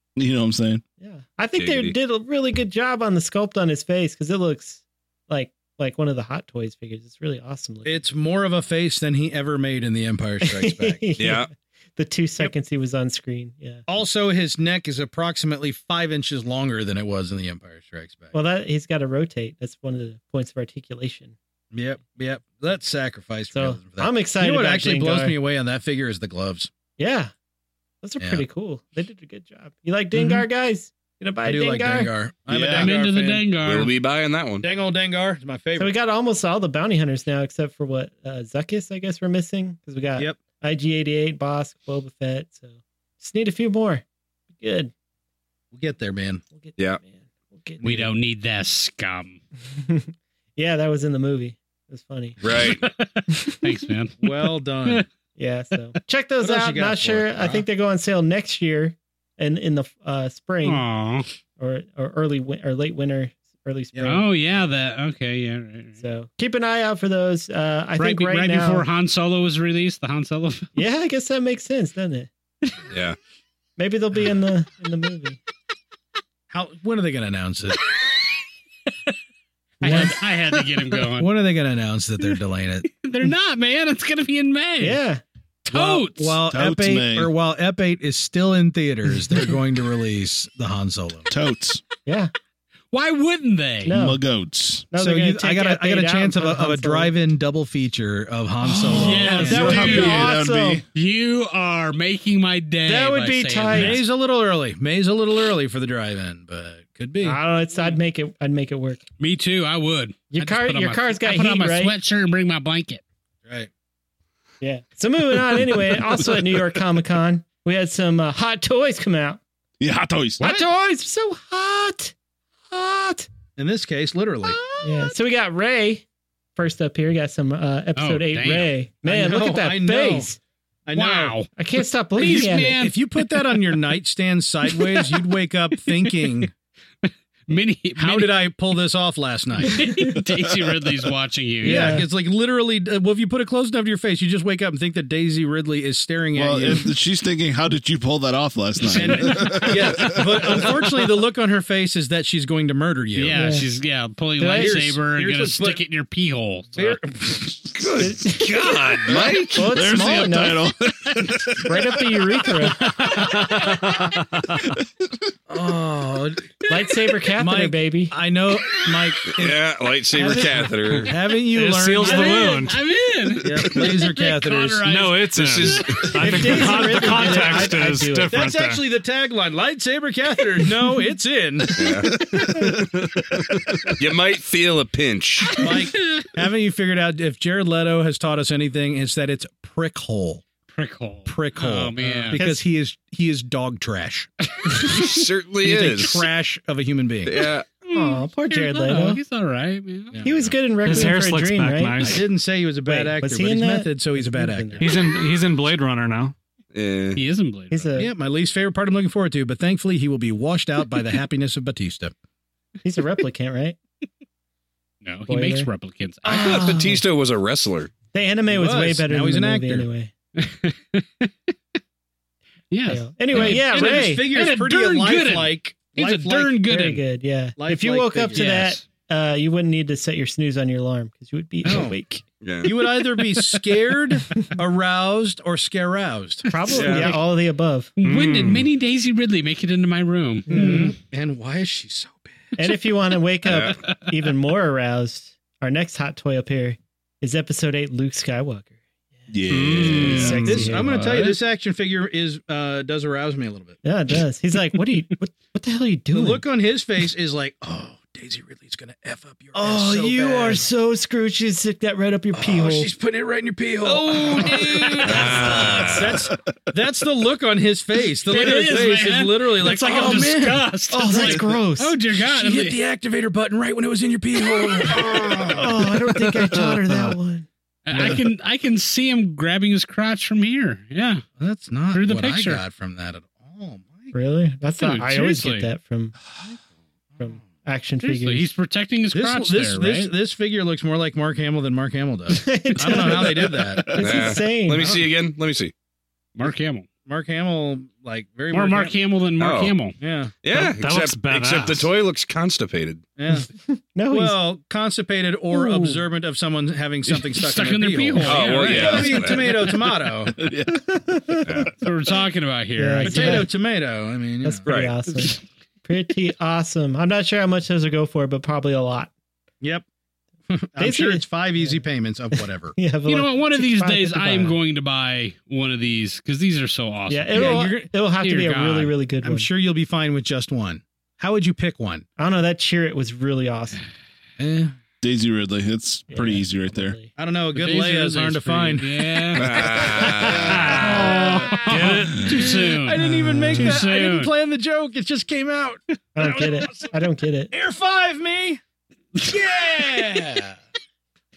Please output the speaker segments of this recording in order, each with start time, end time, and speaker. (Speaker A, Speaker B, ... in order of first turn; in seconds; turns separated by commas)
Speaker A: 0.2-0.8, Speaker B: 1.0-8.1, Speaker C: 1.6-2.0, Speaker D: 7.8-11.1, Speaker B: 10.4-13.8, Speaker C: 11.2-11.5, Speaker D: 13.9-18.3, Speaker B: 18.3-21.4, Speaker D: 21.7-26.7, Speaker B: 23.5-25.4, Speaker B: 27.0-27.3, Speaker B: 28.0-32.1, Speaker D: 28.2-28.4, Speaker D: 30.1-30.4, Speaker D: 31.5-33.5, Speaker A: 32.5-32.9, Speaker E: 32.7-33.9, Speaker C: 33.6-34.7, Speaker D: 34.6-35.9, Speaker B: 35.8-44.0, Speaker B: 44.6-44.9, Speaker D: 45.7-46.4, Speaker B: 46.6-48.1, Speaker E: 47.8-49.4, Speaker B: 49.8-52.4, Speaker C: 52.4-52.8, Speaker E: 52.5-55.0, Speaker B: 53.4-53.6, Speaker D: 54.2-55.1, Speaker B: 55.4-60.8, Speaker D: 56.4-57.6, Speaker E: 60.6-61.3, Speaker B: 61.6-64.3, Speaker D: 63.9-64.2, Speaker E: 64.1-66.0, Speaker B: 66.0-68.9, Speaker E: 68.0-70.7, Speaker B: 70.8-72.8, Speaker C: 72.9-73.2, Speaker B: 73.8-75.4, Speaker D: 76.5-77.8, Speaker E: 79.8-81.3, Speaker B: 79.8-80.2, Speaker D: 79.8-80.2, Speaker D: 81.0-82.9, Speaker E: 82.9-85.0, Speaker B: 84.8-85.2, Speaker E: 85.7-86.4, Speaker D: 85.7-91.3, Speaker A: 86.5-87.3, Speaker A: 91.3-91.8, Speaker B: 92.1-92.3, Speaker E: 92.9-93.9, Speaker B: 93.8-94.2, Speaker A: 93.9-94.9, Speaker B: 94.9-97.1, Speaker D: 95.0-100.2, Speaker A: 98.6-100.8, Speaker E: 98.9-100.3, Speaker B: 99.2-100.8, Speaker E: 100.9-104.0, Speaker B: 102.8-104.0, Speaker D: 103.7-107.4, Speaker B: 107.2-109.0, Speaker E: 109.2-113.0, Speaker B: 110.3-111.9, Speaker B: 114.6-119.4, Speaker A: 119.8-120.4, Speaker B: 120.4-122.1, Speaker B: 122.7-123.3, Speaker D: 123.6-124.6, Speaker B: 124.8-126.0, Speaker B: 126.6-130.4, Speaker E: 128.0-128.7, Speaker D: 129.1-130.3, Speaker D: 130.9-131.4, Speaker E: 130.9-131.5, Speaker B: 131.6-132.8, Speaker E: 132.2-133.8, Speaker D: 132.2-136.5, Speaker E: 134.7-135.2, Speaker E: 135.9-136.5, Speaker E: 137.0-138.4, Speaker D: 138.0-139.9, Speaker E: 139.6-142.0, Speaker B: 139.8-140.2, Speaker B: 141.6-142.1, Speaker D: 141.6-146.9, Speaker A: 146.3-150.8, Speaker D: 148.9-153.6, Speaker E: 149.0-150.6, Speaker E: 153.2-157.0, Speaker B: 153.3-153.7, Speaker B: 154.4-154.8, Speaker D: 154.5-155.8, Speaker D: 156.8-157.6, Speaker C: 157.7-159.8, Speaker B: 158.0-158.7, Speaker B: 159.5-160.6, Speaker A: 159.5-161.8, Speaker B: 161.6-163.0, Speaker F: 162.9-164.6, Speaker E: 163.1-163.9, Speaker D: 165.5-166.5, Speaker E: 166.7-167.1, Speaker B: 166.7-168.1, Speaker D: 167.4-169.6, Speaker C: 169.3-171.1, Speaker B: 170.2-170.7, Speaker D: 171.0-172.6, Speaker F: 171.5-172.8, Speaker E: 172.0-177.3, Speaker D: 173.4-174.9, Speaker F: 174.8-178.8, Speaker C: 175.3-176.3, Speaker B: 176.2-178.4, Speaker D: 176.3-177.7, Speaker D: 178.3-181.8, Speaker C: 181.7-182.2, Speaker A: 182.2-183.6, Speaker C: 183.9-185.6, Speaker D: 185.6-190.4, Speaker E: 185.6-186.2, Speaker E: 190.7-192.4, Speaker D: 191.3-194.3, Speaker B: 192.3-192.6, Speaker C: 194.9-196.3, Speaker D: 195.6-197.4, Speaker C: 197.3-197.7, Speaker E: 197.8-200.3, Speaker B: 197.9-199.2, Speaker D: 200.1-201.1, Speaker B: 200.2-202.2, Speaker F: 200.8-202.2, Speaker D: 202.0-205.0, Speaker B: 202.8-205.0, Speaker F: 204.8-206.3, Speaker C: 206.7-207.2, Speaker E: 207.2-207.9, Speaker B: 207.7-208.1, Speaker D: 208.0-212.1, Speaker B: 212.8-213.8, Speaker E: 215.0-216.6, Speaker B: 215.3-215.7, Speaker B: 216.2-217.0, Speaker C: 216.2-217.9, Speaker B: 218.1-220.1, Speaker D: 218.5-219.9, Speaker E: 220.4-221.3, Speaker E: 222.7-227.0, Speaker B: 222.9-224.3, Speaker D: 223.3-226.6, Speaker B: 226.7-232.2, Speaker D: 227.6-228.6, Speaker E: 228.3-228.8, Speaker D: 231.7-232.0, Speaker C: 232.4-232.8, Speaker D: 232.6-237.1, Speaker B: 236.5-237.9, Speaker E: 236.5-237.2, Speaker C: 236.7-237.2, Speaker E: 238.0-240.9, Speaker F: 238.0-238.7, Speaker B: 240.5-240.9, Speaker D: 240.5-242.6, Speaker B: 242.6-249.3, Speaker C: 243.5-243.8, Speaker A: 249.3-250.5, Speaker F: 249.5-251.2, Speaker B: 250.0-251.3, Speaker D: 250.5-253.8, Speaker B: 253.8-256.4, Speaker D: 256.1-260.6, Speaker B: 259.5-262.9, Speaker D: 262.4-271.4, Speaker E: 263.9-265.9, Speaker C: 264.1-266.3, Speaker E: 268.2-272.8, Speaker B: 269.9-270.3, Speaker B: 270.9-272.0, Speaker D: 272.1-275.7, Speaker E: 274.6-275.4, Speaker B: 275.5-277.5, Speaker E: 277.9-281.2, Speaker D: 281.4-284.1, Speaker E: 281.9-282.6, Speaker B: 284.1-286.1, Speaker E: 284.8-285.7, Speaker B: 287.2-288.5, Speaker E: 288.0-290.1, Speaker D: 289.1-294.1, Speaker B: 292.3-295.0, Speaker A: 293.7-294.0, Speaker C: 294.0-295.7, Speaker E: 296.4-296.9, Speaker D: 297.1-298.9, Speaker E: 298.5-300.0, Speaker C: 299.4-299.9, Speaker D: 300.0-300.3, Speaker C: 300.4-303.1, Speaker F: 300.5-301.9, Speaker D: 303.2-303.5, Speaker B: 303.3-304.4, Speaker D: 304.1-310.4, Speaker B: 305.5-306.0, Speaker E: 307.1-309.7, Speaker C: 308.2-309.7, Speaker A: 310.3-310.9, Speaker B: 310.7-311.6, Speaker C: 311.4-311.8, Speaker E: 311.8-313.5, Speaker B: 312.8-313.5, Speaker D: 313.1-314.7, Speaker B: 314.4-319.1, Speaker C: 314.7-314.9, Speaker D: 320.5-322.8, Speaker B: 320.8-324.6, Speaker E: 323.1-328.9, Speaker B: 327.1-329.5, Speaker D: 327.4-327.9, Speaker D: 329.2-332.1, Speaker B: 332.2-333.8, Speaker D: 334.4-334.7, Speaker A: 335.0-337.0, Speaker B: 336.1-337.1, Speaker D: 337.2-346.9, Speaker E: 337.5-344.3, Speaker C: 339.4-340.8, Speaker B: 340.8-342.1, Speaker A: 340.8-341.3, Speaker A: 341.8-342.3, Speaker B: 346.1-347.5, Speaker D: 347.5-348.6, Speaker D: 349.2-350.6